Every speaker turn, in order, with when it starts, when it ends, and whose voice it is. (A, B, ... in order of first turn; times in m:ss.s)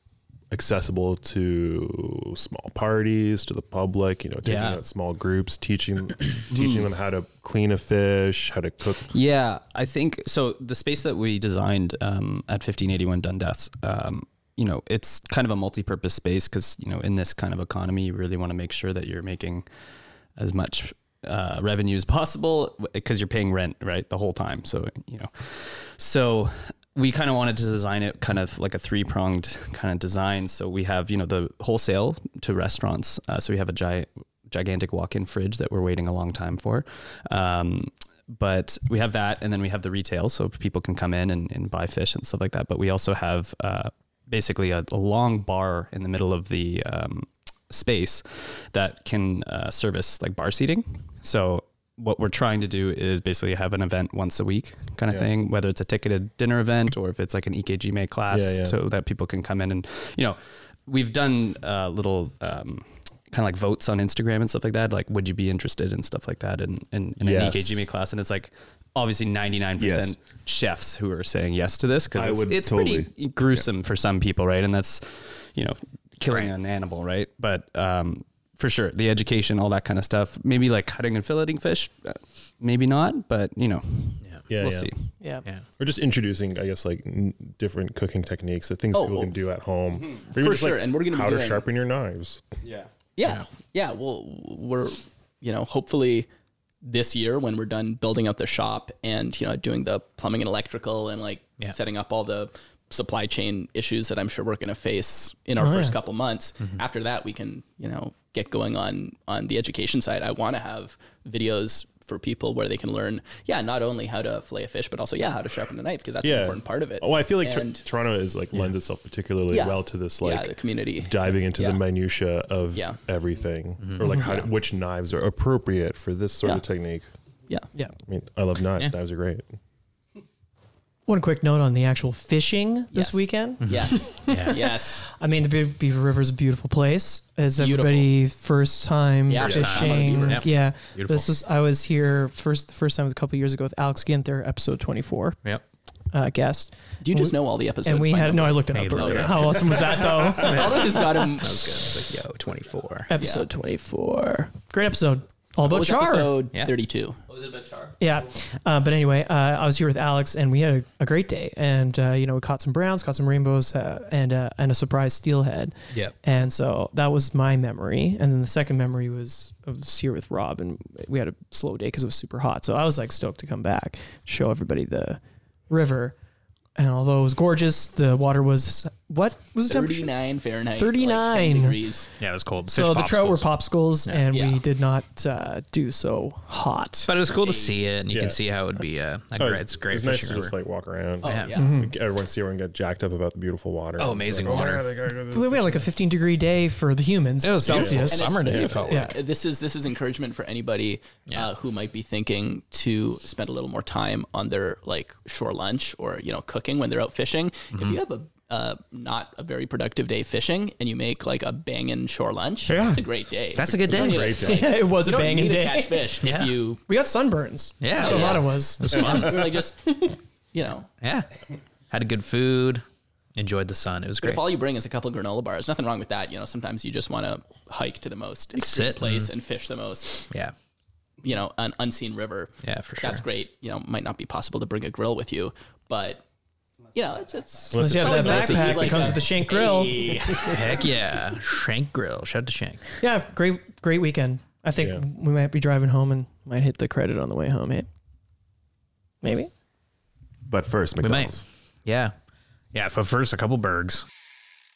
0:00.5-0:09.1 A
0:04.4-0:04.8 B
0:06.5-0:06.9 B
0:09.0-0:19.6 B
0:20.4-1:25.0 B
0:58.3-0:58.7 A
1:07.2-1:07.7 C
1:09.8-1:10.1 C
1:12.1-1:13.1 C
1:16.2-1:16.5 D
1:24.5-1:24.9 A
1:25.2-1:25.5 E
1:25.8-1:32.4 A
1:28.9-1:29.4 F
1:30.3-1:31.6 F
1:33.2-1:36.3 F
1:36.8-1:57.8 F
1:45.6-1:45.9 E
1:56.2-2:07.1 A
1:59.5-2:01.8 F
2:04.0-2:04.3 E
2:04.1-2:04.5 F
2:08.0-2:09.5 A
2:11.1-2:25.4 E
2:12.9-2:15.0 F
2:13.6-2:14.6 D
2:17.6-2:18.1 F
2:19.3-2:20.4 F
2:19.4-2:21.3 D
2:26.1-2:31.2 E
2:27.0-2:31.7 F
2:28.7-2:33.1 D
2:33.1-2:36.4 E
2:33.1-2:33.5 F
2:35.6-2:37.2 F
2:38.0-2:56.1 E
2:56.8-3:00.1 E
2:59.7-3:02.1 F
3:00.8-3:01.8 E
3:02.2-3:03.5 D
3:02.7-3:07.1 E
3:04.3-3:04.6 F
3:07.0-3:10.5 D
3:07.4-3:07.7 F
3:08.1-3:08.4 A
3:09.4-3:15.8 A
3:11.2-3:11.8 F
3:11.2-3:11.6 D
3:11.6-3:11.9 E
3:14.0-3:14.9 D
3:15.3-3:19.2 E
3:17.4-3:19.1 D
3:17.6-3:18.8 A
3:17.8-3:36.8 F
3:27.7-3:28.0 D
3:32.7-3:33.0 C
3:33.5-3:34.4 D
3:33.6-3:34.7 A
3:34.4-3:36.2 E
3:36.2-3:36.5 D
3:36.9-3:40.2 E
3:37.8-3:39.6 D
3:38.0-3:40.9 F
3:41.0-3:41.3 D
3:41.9-3:42.8 D
3:43.4-3:44.4 D
3:44.2-3:50.3 F
3:48.5-3:49.3 D
3:51.2-3:56.2 F
3:52.6-3:53.2 D
3:56.9-4:00.8 F
3:57.7-3:59.2 A
3:57.7-4:00.5 E
4:00.4-4:02.8 D
4:03.0-4:07.9 E
4:09.2-4:09.5 E
4:10.5-4:11.4 C
4:11.0-4:11.3 D
4:11.8-4:12.1 D
4:12.7-4:14.0 D